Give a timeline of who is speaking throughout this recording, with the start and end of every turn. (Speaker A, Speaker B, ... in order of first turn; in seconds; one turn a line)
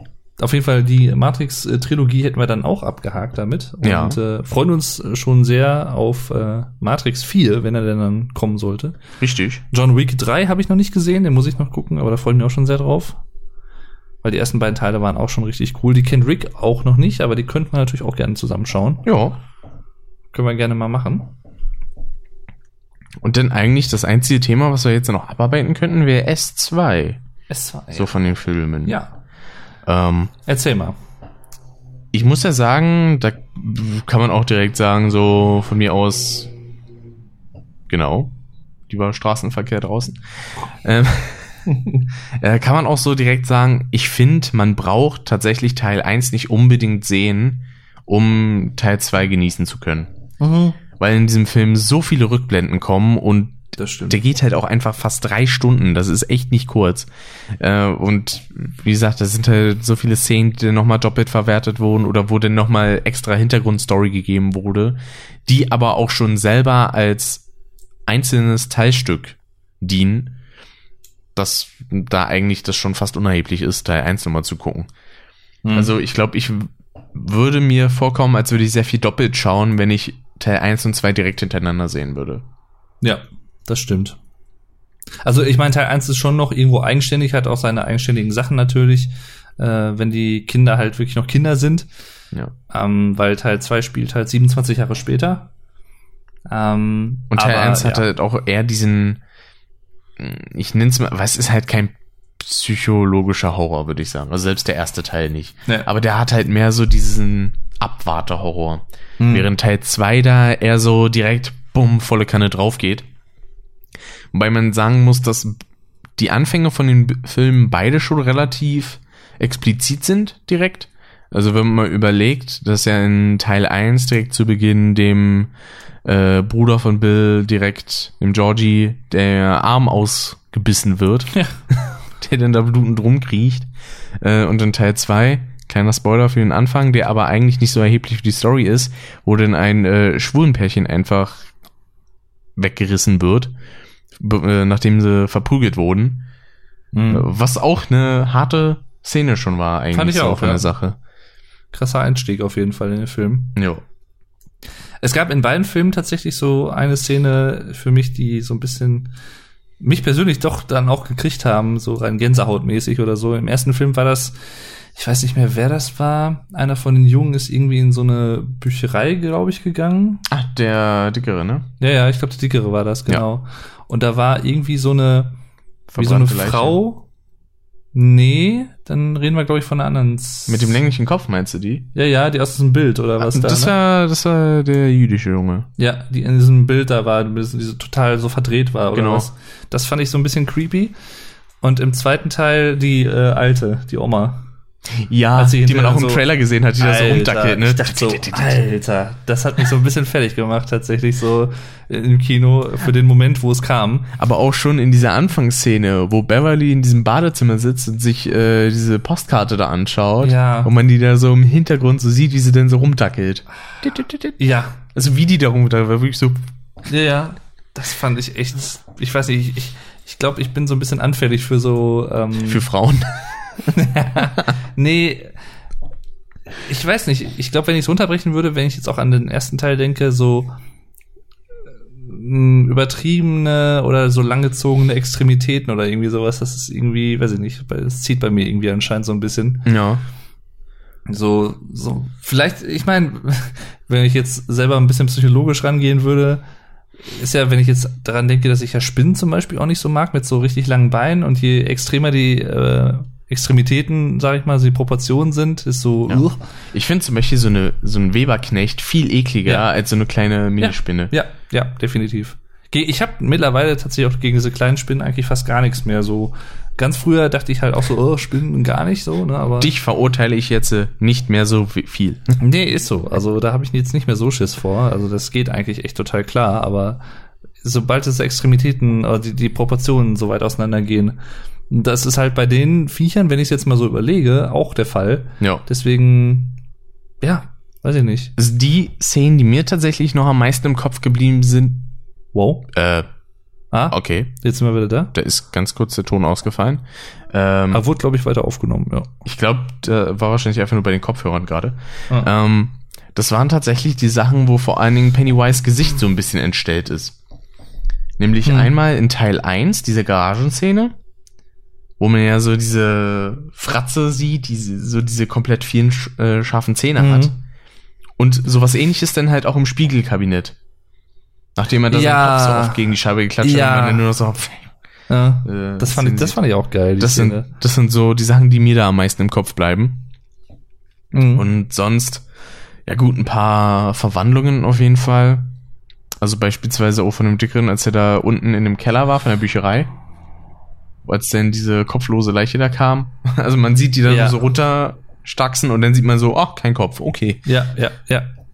Speaker A: 0.4-9.0
Speaker B: 3.8-4.2
Speaker B: 9.2-9.6
Speaker A: 9.7-13.2
Speaker A: 14.2-19.1
Speaker B: 19.0-19.4
Speaker A: 20.3-21.3
Speaker B: 23.2-27.2
Speaker A: 27.5-28.1
Speaker B: 27.9-29.0
Speaker A: 28.9-29.1
Speaker B: 29.9-30.3
Speaker A: 30.4-30.9
Speaker B: 32.1-36.5
Speaker B: 37.9-38.3
Speaker B: 38.9-40.2
Speaker B: 40.8-50.1
Speaker A: 50.4-50.8
Speaker B: 51.0-57.1
Speaker A: 53.8-54.2
Speaker B: 57.6-67.4
Speaker B: 68.1-70.3
Speaker B: 71.3-74.9
Speaker A: 75.6-75.9
Speaker B: 75.7-82.4
Speaker A: 83.0-84.2
Speaker A: 85.2-91.9
Speaker A: 92.7-95.5
Speaker A: 96.5-98.1
Speaker B: 97.3-99.2
Speaker B: 100.2-113.0
Speaker A: 109.2-109.5
Speaker B: 114.3-115.5
Speaker B: 116.2-125.5
Speaker B: 126.0-133.7
Speaker B: 134.2-141.5
Speaker B: 142.6-143.5
Speaker B: 144.2-146.2
Speaker A: 146.9-147.3
Speaker B: 147.1-150.9
Speaker A: 149.9-150.7
Speaker A: 151.7-153.6
Speaker B: 153.6-153.8
Speaker A: 155.0-159.1
Speaker A: 159.8-164.3
Speaker A: 164.9-170.2
Speaker B: 170.3-171.7
Speaker A: 171.8-175.3
Speaker B: 175.9-176.8
Speaker A: 176.0-177.1
Speaker A: 177.9-180.8
Speaker B: 180.5-181.9
Speaker A: 181.9-183.7
Speaker B: 183.2-185.7
Speaker A: 185.8-190.9
Speaker B: 188.9-189.3
Speaker A: 191.6-194.4
Speaker B: 195.0-198.6
Speaker A: 195.3-196.2
Speaker A: 196.8-204.1
Speaker B: 204.2-214.4
Speaker A: 210.2-210.7
Speaker A: 214.4-214.8
Speaker B: 214.9-216.4
Speaker A: 216.9-222.6
Speaker B: 222.4-223.8
Speaker A: 223.7-225.3
Speaker A: 226.7-230.5
Speaker A: 232.0-239.6
Speaker B: 239.6-240.0
Speaker A: 241.1-246.4
Speaker A: 247.0-256.4
Speaker B: 256.1-261.1
Speaker A: 260.6-269.7
Speaker B: 269.6-272.2
Speaker A: 272.4-277.0
Speaker A: 277.6-281.2
Speaker A: 281.7-286.6
Speaker A: 287.2-288.3
Speaker B: 288.4-291.9
Speaker A: 292.3-292.6
Speaker B: 292.7-293.1
Speaker A: 293.7-295.1
Speaker B: 293.9-294.3
Speaker B: 295.1-297.8
Speaker A: 297.7-299.1
Speaker B: 299.2-307.1
Speaker B: 308.2-310.9
Speaker A: 308.4-308.7
Speaker B: 312.0-317.3
Speaker A: 317.0-317.4
Speaker B: 318.2-320.6
Speaker B: 321.6-324.7
Speaker A: 321.9-322.9
Speaker A: 323.4-324.0
Speaker A: 325.1-327.5
Speaker B: 325.4-326.4
Speaker B: 327.0-330.1
Speaker A: 331.1-331.4
Speaker B: 331.3-332.2
Speaker B: 332.9-335.5
Speaker B: 336.2-339.9
Speaker B: 341.1-347.5
Speaker A: 344.1-344.4
Speaker A: 347.4-348.3